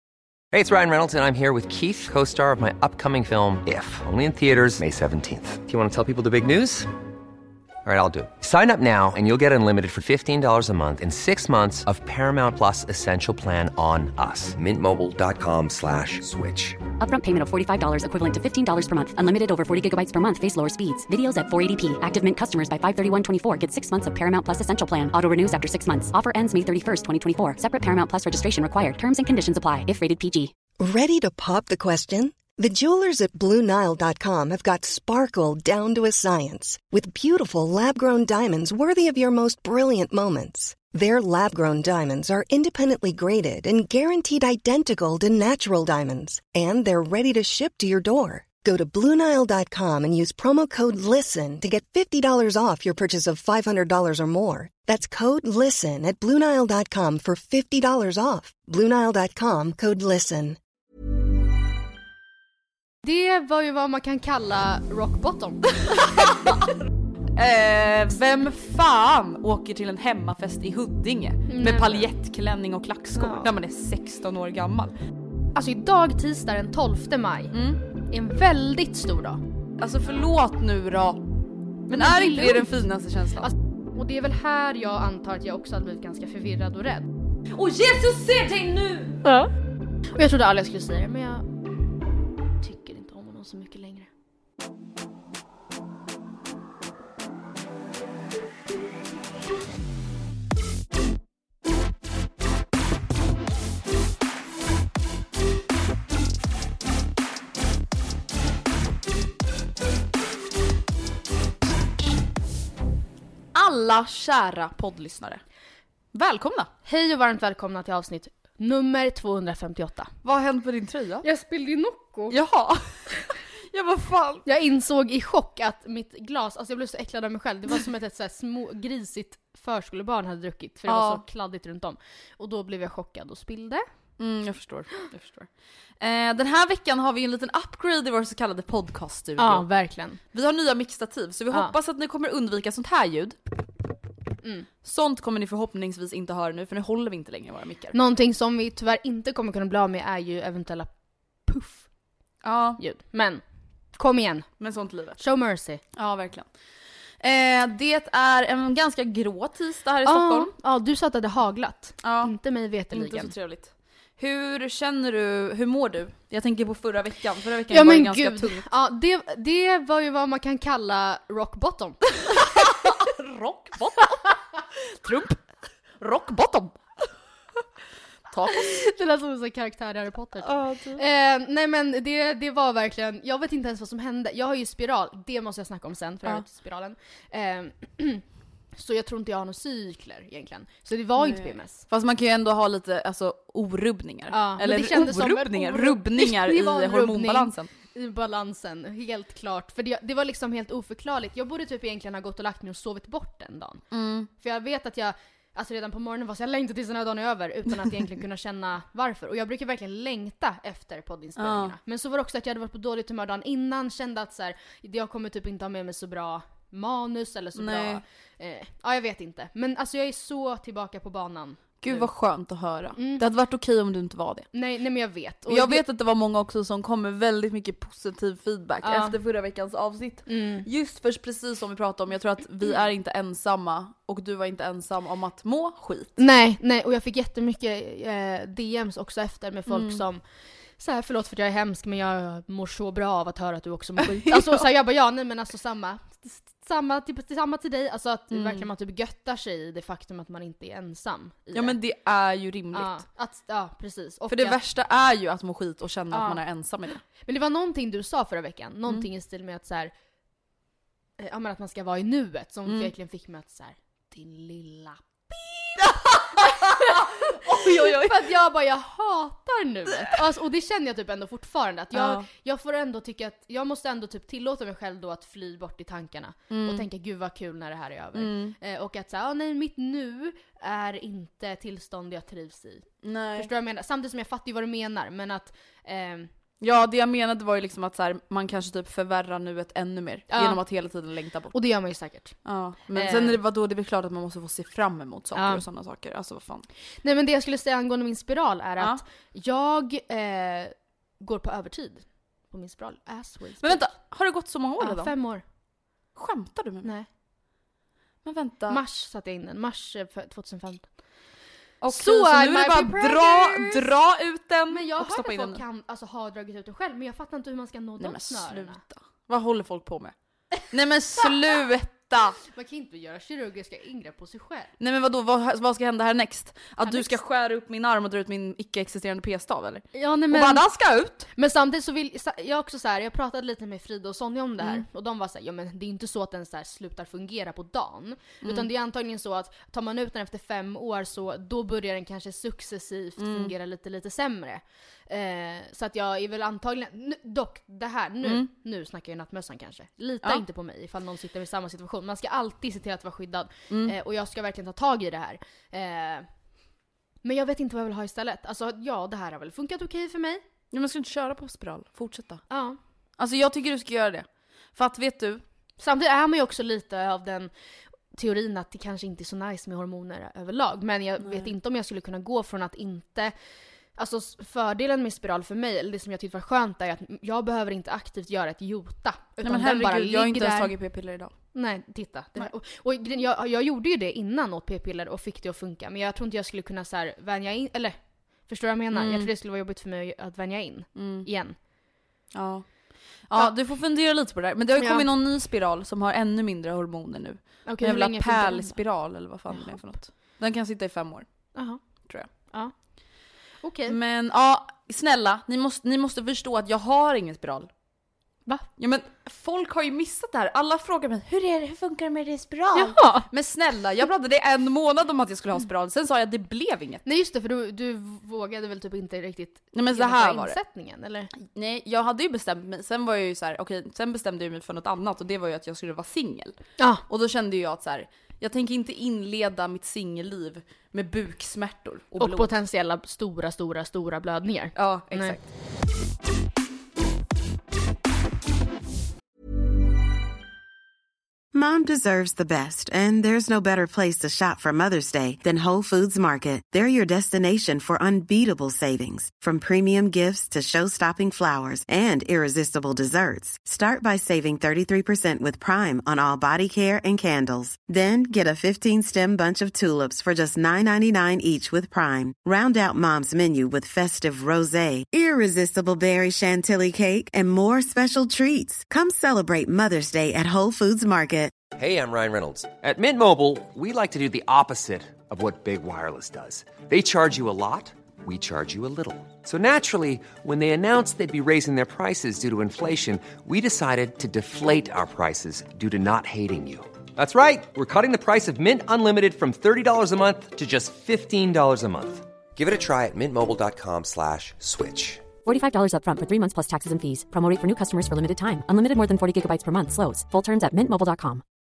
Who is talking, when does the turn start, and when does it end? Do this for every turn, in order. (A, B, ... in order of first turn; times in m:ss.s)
0:00.5-0:06.9 A
0:07.8-0:16.8 A
0:17.0-0:30.5 B
0:30.8-1:00.6 C
1:03.0-1:05.8 D
1:07.4-1:14.9 E
1:11.5-1:12.1 D
1:13.1-1:13.5 D
1:15.5-1:19.4 D
1:17.5-1:17.8 E
1:19.8-1:21.2 E
1:21.9-1:23.5 E
1:21.9-1:22.7 D
1:23.4-1:27.1 D
1:27.5-1:29.2 E
1:29.2-1:29.5 D
1:30.1-1:31.5 D
1:32.6-1:34.1 D
1:53.5-1:55.4 E
1:56.1-1:56.7 E
1:56.8-2:00.1 D
2:00.2-2:01.2 E
2:01.2-2:02.4 D
2:02.3-2:02.9 E
2:03.7-2:04.4 E
2:04.4-2:13.8 D
2:10.9-2:11.2 E
2:14.2-2:15.5 E
2:16.0-2:19.6 E
2:19.4-2:20.2 D
2:20.3-2:23.4 E
2:24.4-2:24.7 D
2:24.8-2:27.9 E
2:27.9-2:30.9 D
2:31.4-2:31.8 D
2:32.4-2:32.8 E
2:32.8-2:33.4 D
2:34.0-2:34.5 D
2:34.6-2:35.2 E
2:35.2-2:35.8 D
2:35.9-2:36.5 E
2:37.2-2:40.5 E
2:40.0-2:43.3 D
2:42.0-2:42.4 E
2:42.9-2:48.6 E
2:47.7-2:52.2 D
2:52.4-2:54.4 E
2:55.0-2:55.4 E
2:56.0-2:56.8 E
2:58.3-2:58.8 E
2:58.6-3:08.2 D
3:00.4-3:01.0 E
3:08.8-3:11.8 D
3:11.2-3:17.7 E
3:14.3-3:23.8 D
3:23.9-3:24.3 E
3:24.3-3:42.1 D
3:31.4-3:31.8 E
3:37.6-3:38.0 E
3:41.8-3:44.5 E
3:43.0-3:43.2 D
3:44.5-3:45.8 D
3:45.5-3:56.2 E
3:48.8-3:49.2 D
3:50.3-3:50.6 D
3:56.2-4:00.2 D
3:59.7-4:00.0 E
4:00.8-4:11.8 D
4:04.3-4:04.6 E
4:08.3-4:08.6 E
4:11.5-4:13.0 E
4:12.7-4:14.6 D
4:14.3-4:17.0 E
4:16.1-4:16.4 D
4:17.2-4:19.9 D
4:21.2-4:46.3 D
4:22.6-4:22.9 E
4:25.8-4:28.3 E
4:31.9-4:32.3 E
4:36.5-4:36.8 E
4:38.2-4:38.6 E
4:43.0-4:43.5 E
4:46.6-4:51.5 E
4:50.3-4:50.6 D
4:51.5-4:53.4 D
4:52.4-4:56.7 E
4:55.3-4:55.6 D
4:57.0-5:03.9 D
5:03.6-5:05.1 E
5:04.8-5:05.4 D
5:06.2-5:06.9 E
5:08.2-5:08.8 E
5:08.7-5:10.9 D
5:11.8-5:15.6 E
5:11.9-5:13.8 D
5:14.7-5:18.8 D
5:18.0-5:20.1 E
5:20.6-5:22.4 E
5:22.5-5:24.7 D
5:24.8-5:31.3 E
5:26.8-5:27.1 D
5:29.9-5:30.6 D
5:31.3-5:56.3 D
5:38.4-5:38.7 E
5:43.2-5:43.5 E
5:53.7-5:53.9 E
5:57.2-6:00.4 D
6:00.7-6:02.4 E
6:02.5-6:02.8 D
6:03.2-6:05.4 E
6:05.8-6:07.5 D
6:08.1-6:13.3 D
6:11.2-6:11.5 E
6:14.0-6:20.7 D
6:19.4-6:21.3 E
6:21.5-6:31.6 D
6:28.9-6:29.3 E
6:31.0-6:31.3 E
6:32.3-6:41.2 E
6:34.8-6:35.1 D
6:37.6-6:38.8 D
6:41.5-6:41.8 D
6:43.6-6:44.0 D
6:43.9-6:47.7 E
6:48.8-6:57.0 E
6:52.7-6:53.3 D
6:57.0-7:01.3 D
6:59.7-7:00.6 E
7:01.4-7:06.6 E
7:07.1-7:12.5 E
7:12.2-7:15.4 D
7:14.8-7:15.4 E
7:21.5-7:51.5 F
7:51.7-8:15.2 A
8:15.4-8:21.4 B